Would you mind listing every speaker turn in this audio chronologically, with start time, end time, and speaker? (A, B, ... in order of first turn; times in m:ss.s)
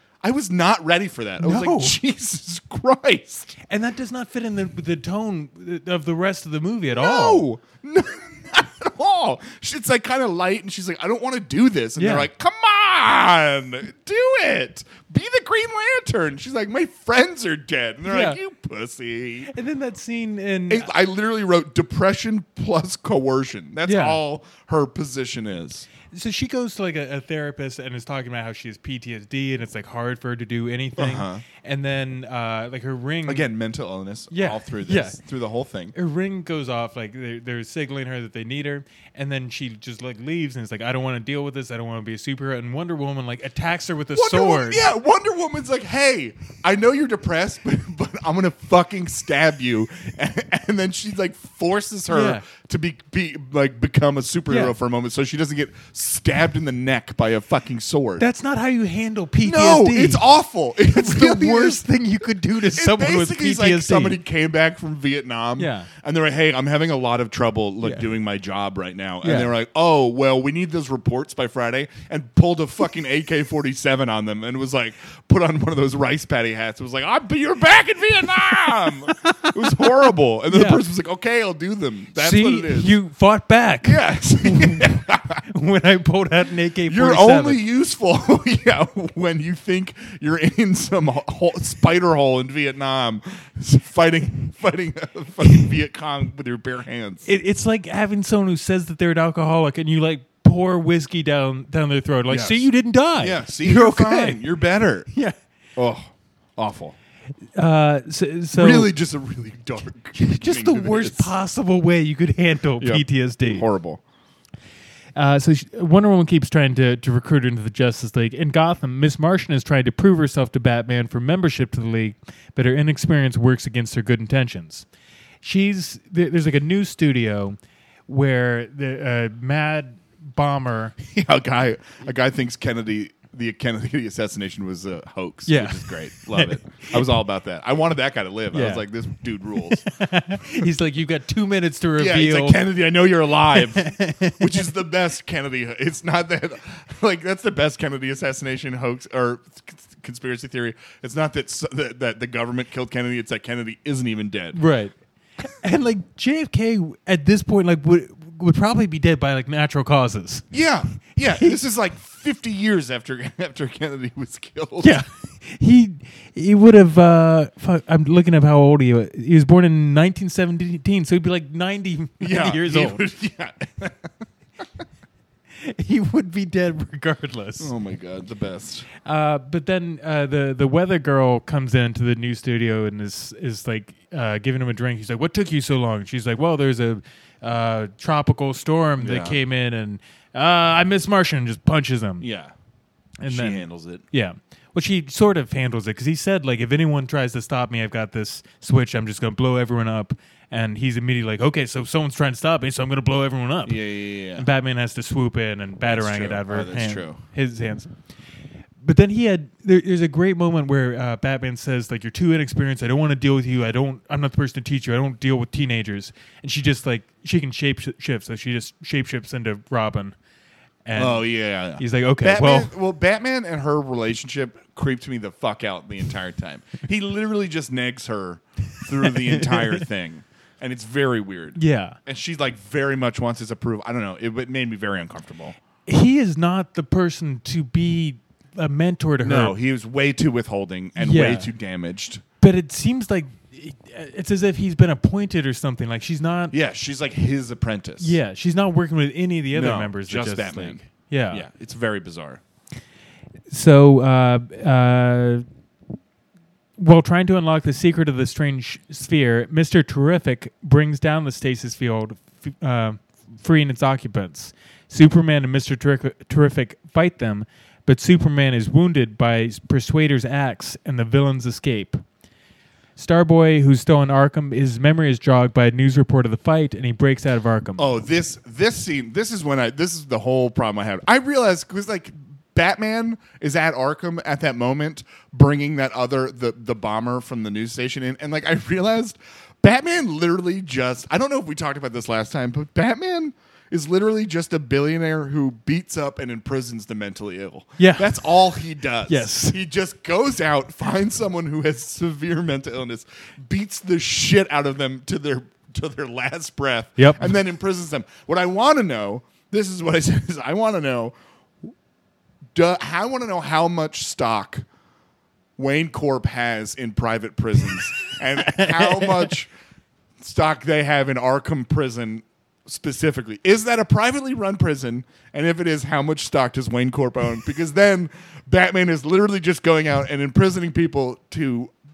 0:00.2-0:03.5 A
0:01.4-0:02.0 B
0:03.7-0:07.4 B
0:07.0-0:19.5 A
0:12.0-0:12.3 B
0:18.0-0:18.4 B
0:19.5-0:20.9 B
0:20.7-0:25.9 A
0:23.8-0:24.2 B
0:26.1-0:33.5 B
0:31.0-0:31.4 A
0:33.2-0:35.9 A
0:34.3-0:35.2 B
0:35.9-0:44.8 B
0:44.1-0:58.2 A
0:52.1-0:52.4 B
0:58.2-1:00.3 B
0:59.4-1:01.8 A
1:00.9-1:04.2 B
1:02.5-1:22.9 A
1:05.6-1:05.9 B
1:09.2-1:09.5 B
1:19.2-1:19.9 B
1:20.5-1:20.8 B
1:22.2-1:27.6 B
1:23.8-1:25.4 A
1:26.9-1:37.3 A
1:37.2-1:44.4 B
1:42.3-1:42.6 A
1:43.2-1:45.1 A
1:45.8-1:47.0 A
1:47.6-1:48.9 B
1:48.6-1:51.3 A
1:50.1-1:53.6 B
1:52.8-1:54.0 A
1:55.2-2:04.9 B
2:05.4-2:10.9 B
2:11.0-2:20.0 A
2:15.5-2:17.1 B
2:18.5-2:18.8 B
2:19.6-2:22.7 B
2:22.0-2:34.6 A
2:23.5-2:24.7 B
2:34.5-2:40.4 B
2:40.5-2:45.0 A
2:41.2-2:41.5 B
2:44.8-2:53.0 B
2:52.2-2:54.1 A
2:55.6-2:57.7 B
2:57.6-2:58.9 A
2:59.0-3:12.2 B
3:09.0-3:09.4 A
3:12.2-3:12.5 A
3:13.2-3:23.8 B
3:13.3-3:14.0 A
3:23.6-3:24.5 A
3:24.3-3:27.9 B
3:25.8-3:27.2 A
3:28.8-3:40.1 B
3:40.8-3:42.7 B
3:41.0-3:55.6 A
3:49.0-3:49.8 B
3:51.6-3:52.0 B
3:55.8-3:59.5 B
3:59.2-4:02.2 A
4:01.0-4:01.5 B
4:02.4-4:06.5 B
4:06.5-4:08.2 A
4:08.0-4:11.4 B
4:09.5-4:12.4 A
4:13.5-4:15.4 B
4:16.8-4:32.0 B
4:33.0-4:37.9 B
4:37.8-5:11.1 A
4:57.8-4:58.1 B
4:59.1-4:59.6 B
5:07.0-5:07.3 B
5:12.5-5:14.6 A
5:15.6-5:19.5 A
5:18.0-5:19.4 B
5:20.2-5:31.7 A